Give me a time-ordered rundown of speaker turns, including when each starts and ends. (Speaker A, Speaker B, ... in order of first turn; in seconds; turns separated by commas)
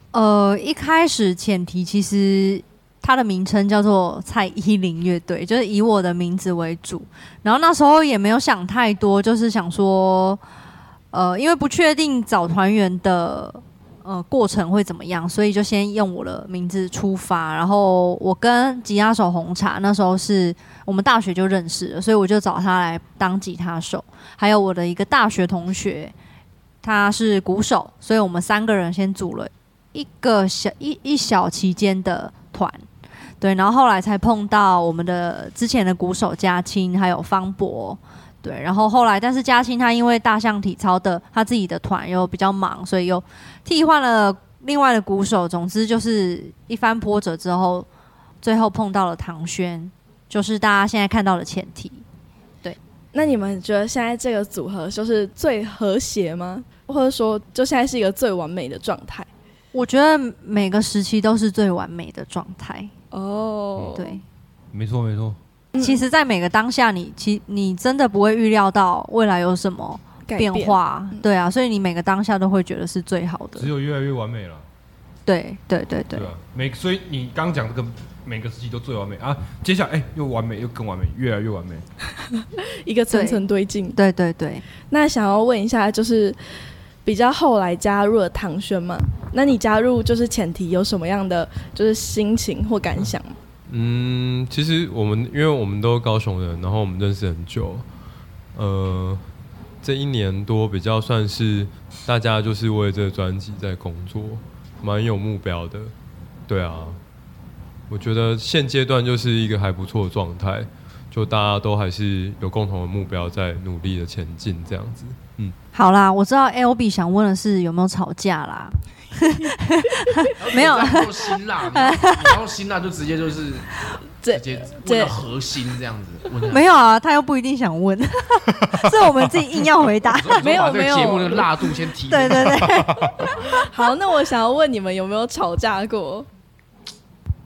Speaker A: 0.1-10.4, Speaker A: 11.1-26.1, Speaker A: 26.8-32.8, Speaker A: 33.4-47.9, Speaker A: 48.4-52.0, Speaker B: 53.1-59.3, Speaker A: 59.7-62.9, Speaker B: 63.1-64.2, Speaker A: 63.9-64.2, Speaker C: 64.7-65.4, Speaker B: 65.7-66.0, Speaker A: 65.8-73.7, Speaker B: 70.3-71.2, Speaker C: 73.5-74.6, Speaker A: 75.2-76.3, Speaker C: 76.1-81.8, Speaker B: 82.4-84.0, Speaker A: 83.1-83.4, Speaker A: 83.9-84.6, Speaker B: 84.9-86.4, Speaker B: 87.0-93.3, Speaker D: 93.7-97.8, Speaker D: 98.5-99.2, Speaker D: 99.8-105.9, Speaker D: 106.5-107.0, Speaker D: 107.9-115.5, Speaker A: 115.7-122.3, Speaker E: 120.4-123.7, Speaker B: 124.2-125.2, Speaker E: 124.3-126.7, Speaker A: 126.5-130.4, Speaker E: 130.1-132.8, Speaker B: 130.4-131.7, Speaker A: 132.1-133.1, Speaker B: 133.2-136.3